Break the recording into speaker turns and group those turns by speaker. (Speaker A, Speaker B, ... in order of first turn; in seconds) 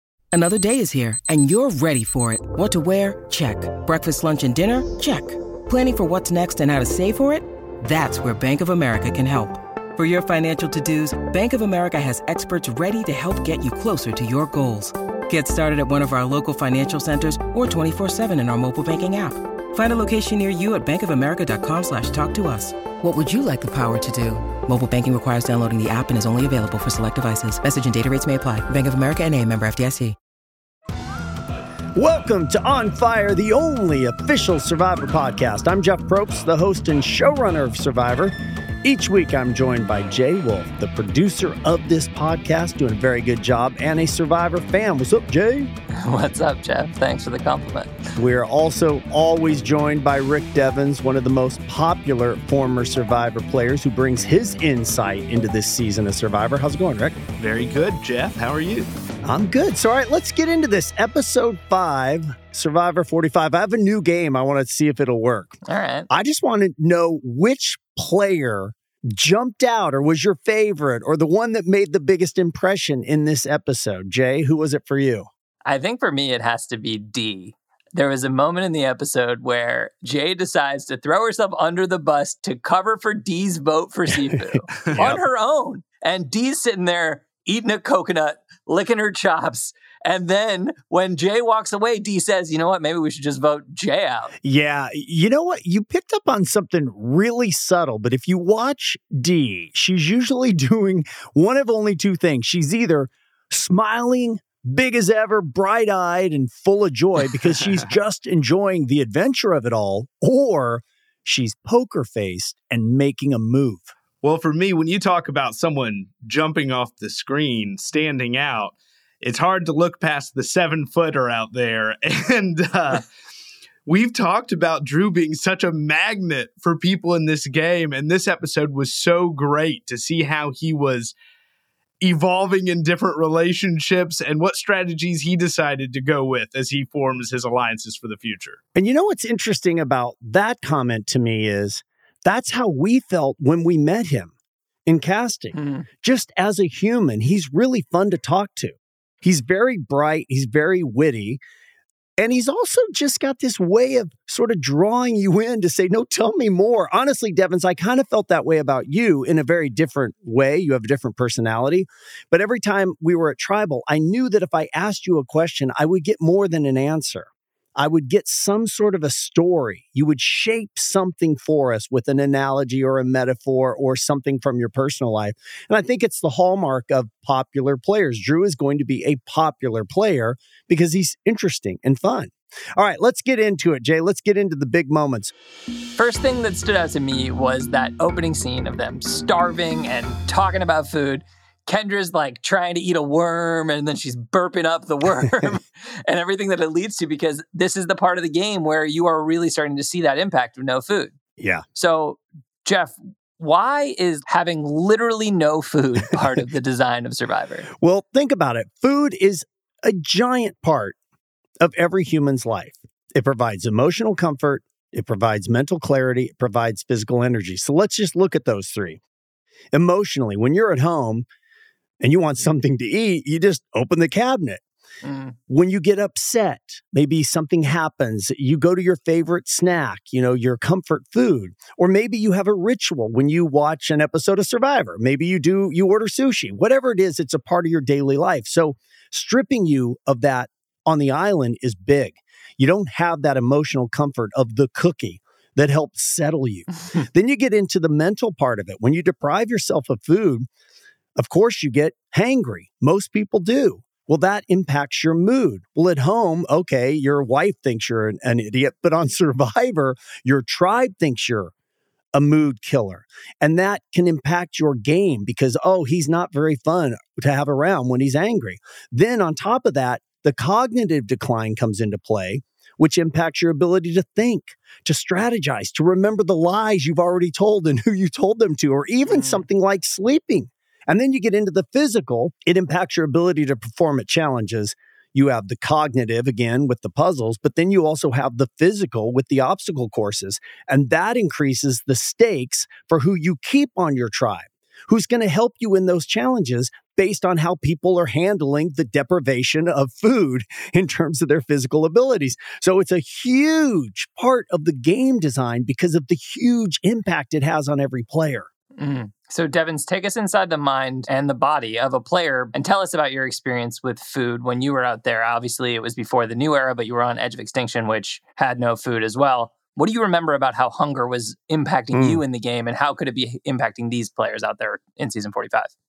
Speaker A: 0.3-30.1
Speaker B: 31.9-45.7, 48.1-57.2, 59.2-65.6, 66.1-75.3, 94.4-113.9, 138.7-144.3, 144.8-151.4, 152.2-185.3, 195.2-195.4, 201.4-201.6, 207.8-210.9, 211.6-219.0, 219.7-221.2, 222.0-224.6, 225.5-250.5, 251.2-261.5, 262.1-308.5, 321.9-322.2
Speaker C: 46.0-47.9, 65.7-66.1, 75.6-94.3, 145.5-145.8, 186.0-201.1, 201.8-207.7, 225.0-225.3, 279.1-279.4, 308.8-325.7
Speaker D: 57.4-58.9, 114.2-123.0, 123.8-131.1, 132.0-138.6